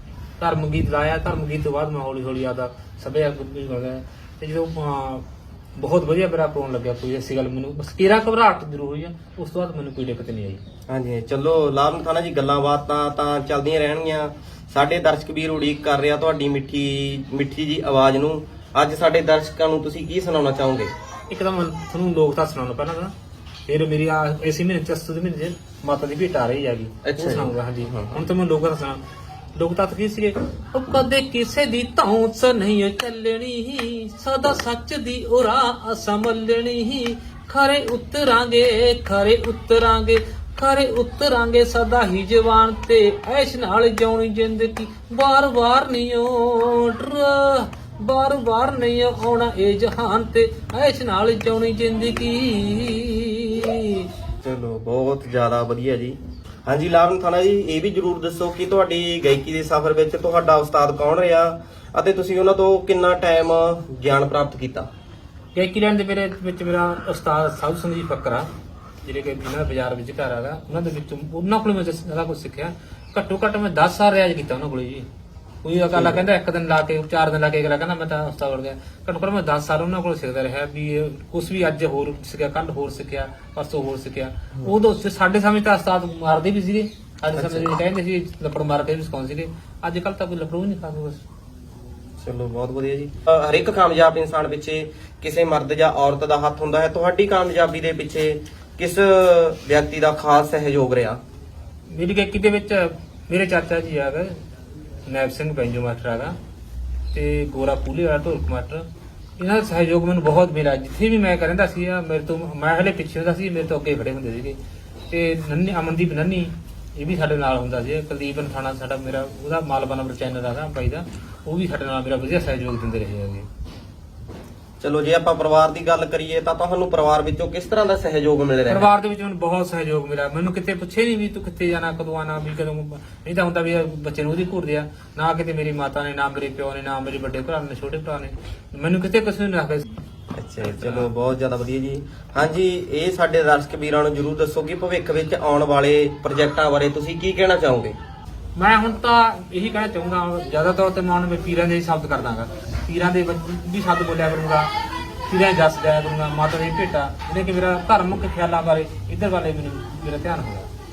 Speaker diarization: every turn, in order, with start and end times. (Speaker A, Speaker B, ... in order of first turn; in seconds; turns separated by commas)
Speaker A: 0.4-5.2, Speaker A: 5.8-10.6, Speaker B: 10.9-20.9, Speaker A: 21.3-23.1, Speaker A: 23.7-29.0, Speaker B: 27.0-28.2, Speaker A: 29.6-54.1, Speaker B: 54.4-64.9, Speaker A: 65.5-68.5, Speaker A: 69.0-75.1, Speaker A: 75.6-91.2, Speaker B: 75.9-76.3, Speaker B: 87.3-87.8, Speaker B: 92.2-101.2, Speaker A: 101.9-104.4, Speaker A: 105.1-106.4, Speaker A: 107.1-108.9, Speaker A: 109.4-114.6, Speaker A: 115.1-123.5, Speaker B: 124.8-128.9, Speaker A: 128.7-139.9, Speaker B: 140.3-147.9, Speaker A: 140.6-141.1, Speaker A: 148.6-154.7, Speaker A: 155.3-160.7